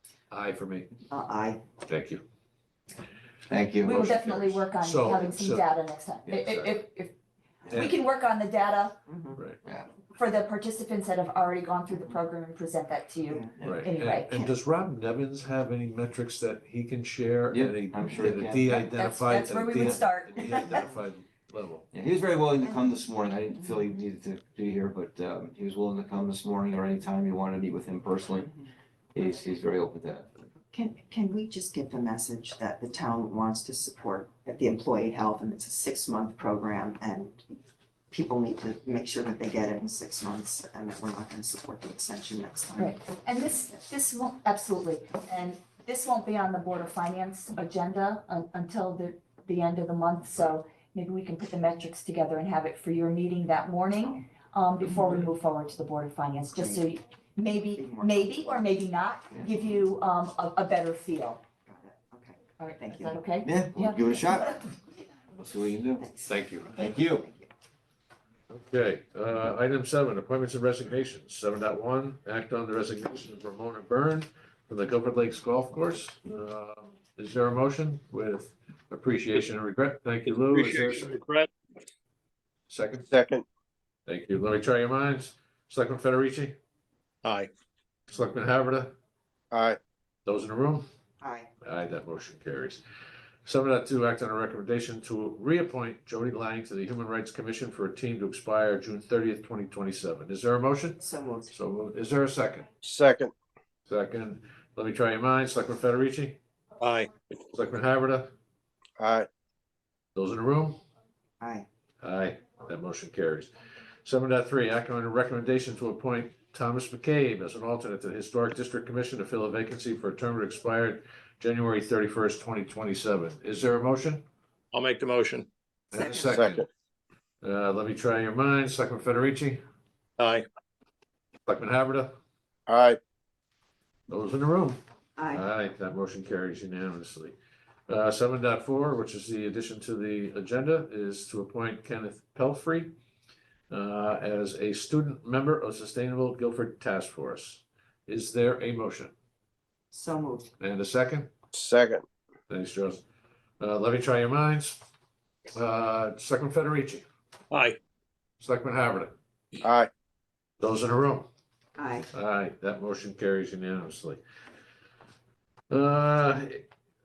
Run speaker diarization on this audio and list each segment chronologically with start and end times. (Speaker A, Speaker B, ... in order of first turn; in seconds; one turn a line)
Speaker A: 0.3-0.9
Speaker B: 1.1-1.6
Speaker A: 1.8-2.2
Speaker C: 3.5-4.0
Speaker D: 3.8-7.1
Speaker A: 3.9-5.7
Speaker A: 6.3-6.9
Speaker D: 7.7-9.0
Speaker B: 9.1-9.4
Speaker A: 9.3-9.6
Speaker D: 10.1-14.3
Speaker A: 13.6-21.9
Speaker C: 17.5-18.9
Speaker D: 18.9-20.9
Speaker C: 21.9-28.6
Speaker C: 29.1-30.3
Speaker B: 30.7-37.5
Speaker B: 38.1-43.2
Speaker D: 42.8-61.4
Speaker B: 56.5-56.8
Speaker B: 57.7-58.6
Speaker B: 59.3-59.9
Speaker B: 61.7-63.3
Speaker D: 62.6-64.1
Speaker C: 63.4-64.7
Speaker C: 65.3-66.1
Speaker B: 66.0-67.5
Speaker A: 66.3-66.7
Speaker C: 66.8-67.2
Speaker A: 68.5-81.2
Speaker E: 80.5-81.5
Speaker A: 82.7-83.1
Speaker F: 83.1-83.4
Speaker A: 84.0-86.5
Speaker A: 88.1-88.9
Speaker F: 89.5-89.8
Speaker A: 90.2-90.9
Speaker B: 91.2-91.5
Speaker A: 91.6-92.8
Speaker A: 93.4-102.7
Speaker B: 101.0-101.5
Speaker F: 102.8-103.3
Speaker A: 103.9-106.4
Speaker E: 106.8-107.1
Speaker A: 107.5-108.3
Speaker F: 109.0-109.3
Speaker A: 110.1-110.8
Speaker B: 111.4-111.7
Speaker A: 112.0-113.5
Speaker A: 114.0-124.2
Speaker E: 124.7-125.5
Speaker A: 125.9-126.6
Speaker B: 126.0-126.3
Speaker F: 126.2-126.7
Speaker A: 127.4-129.6
Speaker A: 131.5-132.2
Speaker F: 132.7-133.0
Speaker A: 134.1-137.3
Speaker B: 135.2-135.5
Speaker A: 137.9-142.9
Speaker A: 143.7-149.1
Speaker B: 149.9-150.5
Speaker A: 150.6-151.3
Speaker F: 151.5-152.0
Speaker A: 152.5-153.0
Speaker A: 153.6-154.8
Speaker A: 155.5-157.1
Speaker A: 158.4-159.1
Speaker F: 159.6-159.9
Speaker A: 160.6-161.3
Speaker B: 161.8-162.1
Speaker A: 162.1-164.2
Speaker A: 165.7-166.7